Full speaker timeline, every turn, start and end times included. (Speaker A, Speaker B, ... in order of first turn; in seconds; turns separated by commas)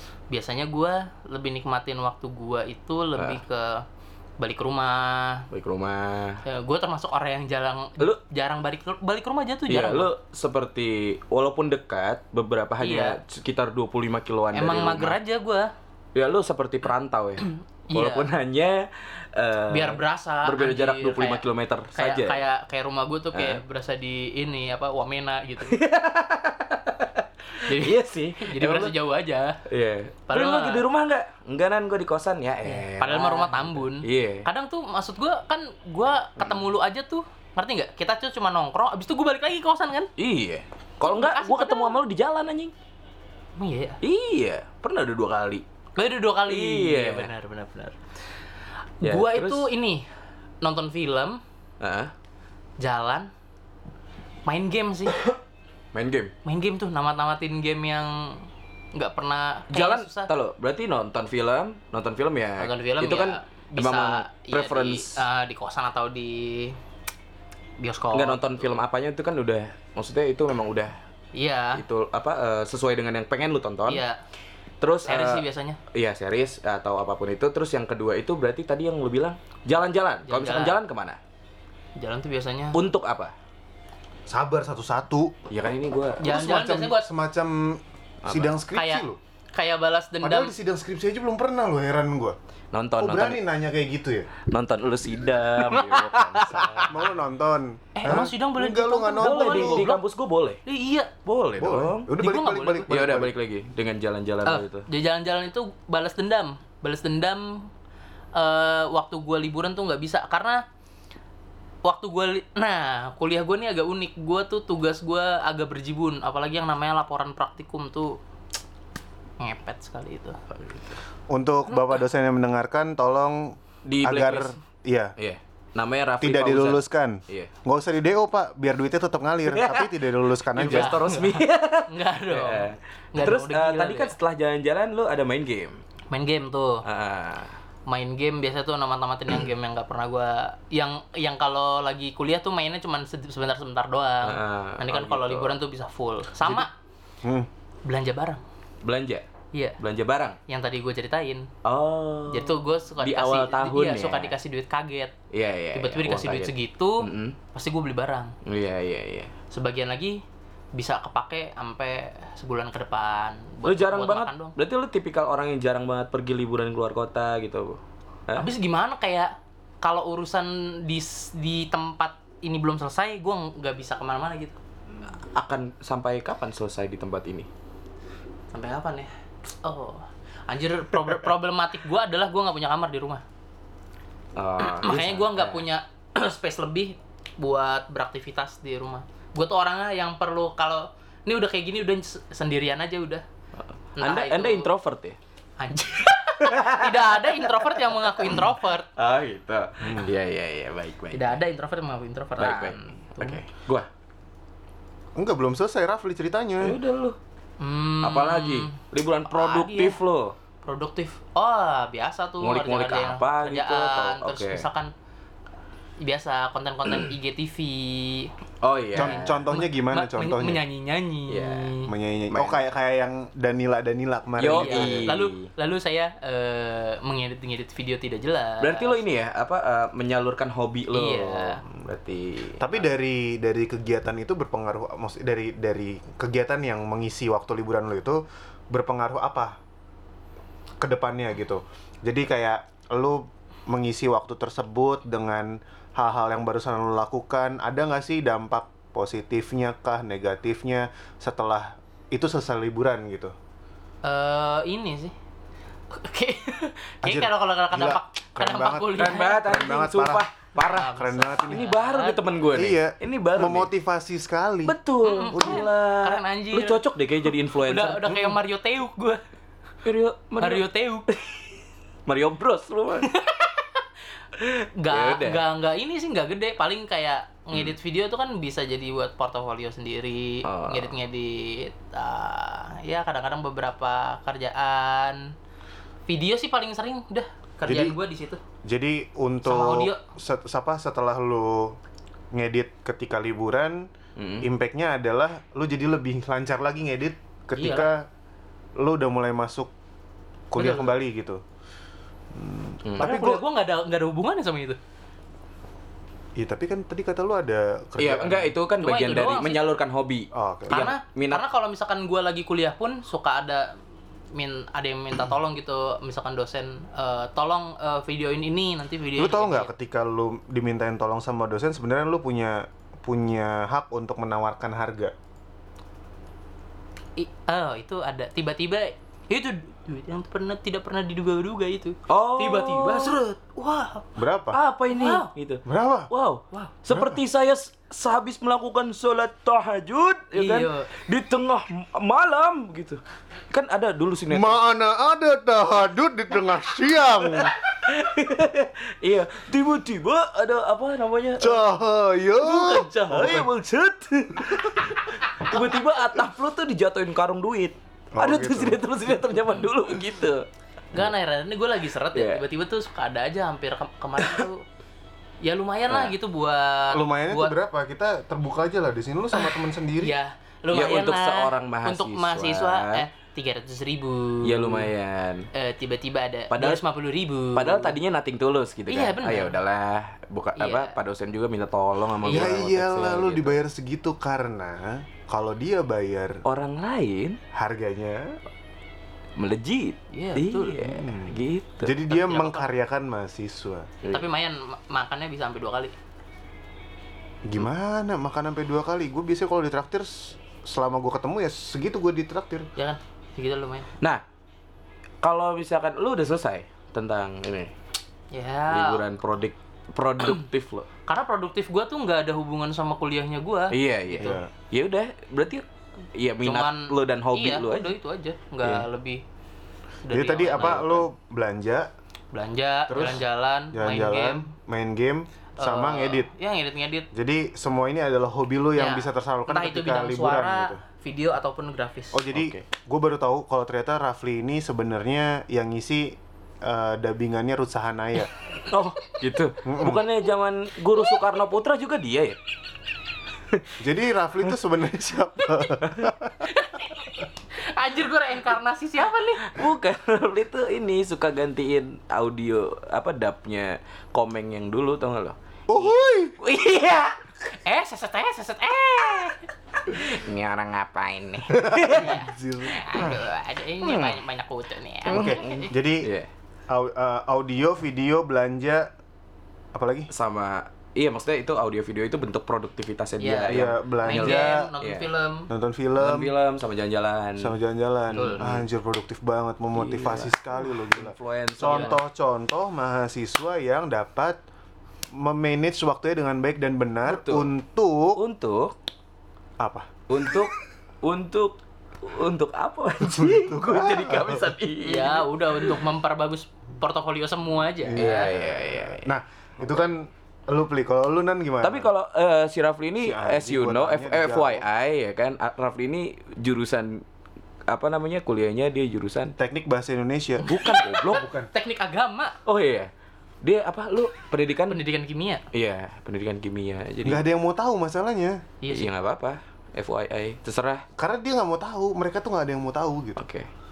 Speaker A: 0.3-3.9, Speaker B: 3.2-3.4, Speaker A: 4.4-5.5, Speaker B: 5.5-6.4, Speaker A: 6.4-10.1, Speaker B: 9.7-15.2, Speaker A: 12.8-13.2, Speaker A: 14.6-15.7, Speaker B: 16.1-22.4, Speaker A: 17.5-18.3, Speaker A: 19.7-21.4, Speaker A: 21.9-25.8, Speaker B: 23.3-23.6, Speaker B: 25.6-28.9, Speaker A: 27.6-29.6, Speaker B: 29.7-34.5, Speaker A: 30.3-30.8, Speaker A: 32.6-40.1, Speaker B: 40.2-42.7, Speaker A: 41.0-42.0, Speaker A: 43.6-44.0, Speaker B: 44.0-45.6, Speaker A: 46.0-48.0, Speaker B: 46.5-47.3, Speaker A: 49.0-50.1, Speaker B: 49.0-49.7, Speaker A: 50.6-51.4, Speaker B: 51.8-52.1, Speaker A: 52.8-53.3, Speaker A: 54.5-55.2, Speaker B: 55.9-56.3, Speaker A: 56.5-60.3, Speaker B: 59.7-65.2, Speaker A: 62.6-66.8, Speaker A: 67.8-68.6, Speaker B: 68.1-71.0, Speaker A: 71.3-71.8, Speaker B: 71.8-74.0, Speaker A: 73.9-74.2, Speaker B: 74.8-81.2, Speaker A: 75.1-75.8, Speaker A: 80.3-80.8, Speaker A: 82.0-82.8, Speaker B: 82.7-83.3, Speaker C: 84.3-85.3, Speaker B: 85.5-86.2, Speaker C: 86.2-89.2, Speaker A: 86.2-87.1, Speaker B: 88.2-88.6, Speaker A: 88.8-90.5, Speaker C: 90.2-92.4, Speaker B: 92.7-93.4, Speaker C: 93.0-94.3, Speaker B: 94.5-97.0, Speaker A: 95.7-96.9, Speaker C: 96.9-99.9, Speaker A: 98.0-100.0, Speaker B: 99.2-100.6, Speaker A: 100.7-101.1, Speaker B: 101.2-102.1, Speaker C: 101.6-103.3, Speaker A: 102.2-102.9, Speaker B: 102.9-104.9, Speaker A: 104.5-107.7, Speaker A: 108.3-110.6, Speaker A: 111.8-118.2, Speaker A: 119.4-120.4, Speaker B: 120.5-120.9, Speaker C: 121.3-125.1, Speaker B: 123.8-124.6, Speaker B: 125.2-127.5, Speaker C: 126.2-131.0, Speaker B: 129.5-130.0, Speaker B: 130.5-135.8, Speaker A: 130.6-134.2, Speaker A: 136.1-136.8, Speaker B: 136.8-137.6, Speaker A: 137.9-146.7, Speaker B: 144.2-145.6, Speaker C: 147.2-147.5, Speaker A: 147.8-148.4, Speaker B: 148.8-149.3, Speaker B: 149.8-150.4, Speaker A: 150.5-151.5, Speaker B: 151.6-154.3, Speaker A: 152.3-155.1, Speaker B: 155.3-157.4, Speaker A: 155.7-158.3, Speaker B: 158.4-159.3, Speaker A: 159.5-160.2, Speaker A: 160.7-164.6, Speaker B: 163.7-168.5, Speaker A: 168.4-174.6, Speaker B: 175.3-177.5, Speaker A: 178.5-179.1, Speaker A: 179.6-183.2, Speaker B: 184.4-185.6, Speaker A: 184.6-193.2, Speaker B: 193.6-195.2, Speaker A: 194.0-194.7, Speaker A: 195.6-198.9, Speaker B: 196.3-197.7, Speaker B: 199.0-201.4, Speaker C: 199.8-200.1, Speaker A: 201.1-203.4, Speaker B: 202.4-203.9, Speaker C: 205.2-206.8, Speaker B: 206.6-207.2, Speaker A: 207.6-210.0, Speaker B: 208.0-210.4, Speaker A: 210.6-214.9, Speaker B: 212.4-214.7, Speaker A: 216.0-218.3, Speaker B: 218.6-219.4, Speaker C: 218.9-220.6, Speaker A: 219.0-221.9, Speaker B: 221.3-221.8, Speaker C: 221.9-225.2, Speaker B: 222.3-222.6, Speaker B: 224.4-225.5, Speaker A: 224.5-229.0, Speaker B: 228.6-232.7, Speaker A: 230.9-231.6, Speaker C: 232.6-239.6, Speaker C: 240.8-253.3, Speaker A: 254.0-255.1, Speaker A: 255.9-259.4, Speaker C: 257.0-260.2, Speaker B: 259.0-263.7, Speaker A: 260.6-262.2, Speaker C: 260.9-261.7, Speaker C: 262.5-264.8, Speaker B: 264.6-268.4, Speaker A: 265.0-266.8, Speaker C: 265.3-265.7, Speaker A: 267.6-269.2, Speaker B: 269.9-271.5, Speaker A: 270.4-271.1, Speaker B: 272.1-273.1, Speaker A: 273.1-273.8, Speaker B: 274.4-275.4, Speaker A: 274.8-285.3, Speaker B: 280.4-280.9, Speaker A: 286.1-288.4, Speaker C: 287.7-288.0, Speaker C: 288.6-291.8, Speaker A: 289.4-290.0, Speaker C: 292.3-293.9, Speaker B: 294.2-294.5, Speaker C: 294.4-298.1, Speaker A: 297.6-297.9, Speaker C: 298.8-299.7, Speaker C: 300.5-301.4, Speaker A: 300.6-300.9, Speaker C: 302.3-303.4, Speaker B: 302.9-303.2, Speaker A: 303.0-304.8, Speaker C: 306.4-308.5, Speaker B: 308.0-311.4, Speaker A: 308.8-309.6, Speaker C: 310.3-310.9, Speaker A: 310.7-313.8, Speaker A: 314.3-319.7, Speaker C: 319.2-325.1, Speaker A: 327.2-334.1, Speaker B: 332.1-333.2, Speaker C: 334.2-334.6, Speaker B: 334.5-344.6, Speaker A: 334.9-335.3, Speaker C: 335.7-336.1, Speaker C: 336.9-337.2, Speaker A: 340.4-340.9, Speaker C: 344.3-347.5, Speaker B: 347.1-351.7, Speaker C: 351.4-353.5, Speaker B: 352.4-360.4, Speaker C: 358.1-358.8, Speaker A: 360.9-364.6, Speaker B: 362.1-362.4, Speaker A: 365.4-367.6, Speaker C: 366.9-370.1, Speaker A: 369.3-374.9, Speaker B: 370.7-373.1, Speaker B: 374.4-375.5, Speaker A: 375.5-378.0, Speaker B: 376.5-376.8, Speaker B: 377.5-383.6, Speaker A: 378.9-379.6, Speaker A: 380.6-380.9, Speaker A: 382.2-382.5, Speaker C: 382.3-386.4, Speaker B: 386.4-387.4, Speaker C: 387.5-388.4, Speaker B: 389.4-392.0, Speaker A: 390.1-390.9, Speaker C: 390.9-393.9, Speaker A: 392.1-392.7, Speaker A: 394.1-395.9, Speaker C: 397.5-402.7, Speaker A: 402.8-403.9, Speaker B: 405.2-407.7, Speaker A: 408.3-409.0, Speaker B: 408.7-410.9, Speaker A: 411.1-414.4, Speaker B: 413.7-417.9, Speaker C: 414.2-414.5, Speaker A: 416.4-419.2, Speaker A: 420.1-421.0, Speaker C: 420.1-421.9, Speaker B: 420.6-421.0, Speaker A: 422.3-424.5, Speaker C: 422.9-426.3, Speaker A: 425.6-427.1, Speaker C: 427.1-430.8, Speaker A: 428.8-432.2, Speaker C: 432.1-438.3, Speaker B: 432.3-432.6, Speaker B: 438.7-442.4, Speaker C: 439.6-440.0, Speaker C: 443.8-446.4, Speaker B: 445.9-446.1, Speaker A: 446.5-447.1, Speaker A: 447.6-449.5, Speaker B: 449.4-455.4, Speaker C: 455.7-456.4, Speaker B: 456.4-457.2, Speaker A: 457.6-459.5, Speaker B: 459.9-462.2, Speaker C: 461.5-463.0, Speaker A: 461.8-465.7, Speaker B: 463.8-464.2, Speaker C: 465.1-466.1, Speaker B: 465.1-466.3, Speaker C: 466.7-468.9, Speaker C: 469.7-470.1, Speaker B: 470.1-475.1, Speaker A: 473.2-475.5, Speaker C: 473.5-474.7, Speaker C: 475.5-476.3, Speaker B: 476.0-477.6, Speaker C: 477.4-484.4, Speaker A: 478.1-478.4, Speaker B: 478.1-478.6, Speaker B: 479.8-482.0, Speaker A: 481.7-481.9, Speaker C: 485.1-488.2, Speaker B: 487.1-487.5, Speaker B: 488.2-488.7, Speaker C: 489.6-490.0, Speaker B: 490.1-495.7, Speaker C: 493.0-494.5, Speaker A: 494.8-498.3, Speaker C: 497.9-501.9, Speaker B: 497.9-499.1, Speaker B: 501.6-507.0, Speaker C: 503.0-504.6, Speaker B: 507.7-509.4, Speaker C: 509.4-510.6, Speaker B: 510.4-511.3, Speaker A: 510.5-512.4, Speaker C: 511.1-511.5, Speaker B: 512.5-512.9, Speaker B: 513.4-514.8, Speaker A: 514.7-515.4, Speaker B: 515.5-517.2, Speaker C: 517.0-518.4, Speaker A: 518.6-518.9, Speaker B: 518.7-520.9, Speaker C: 521.0-523.2, Speaker B: 523.2-523.5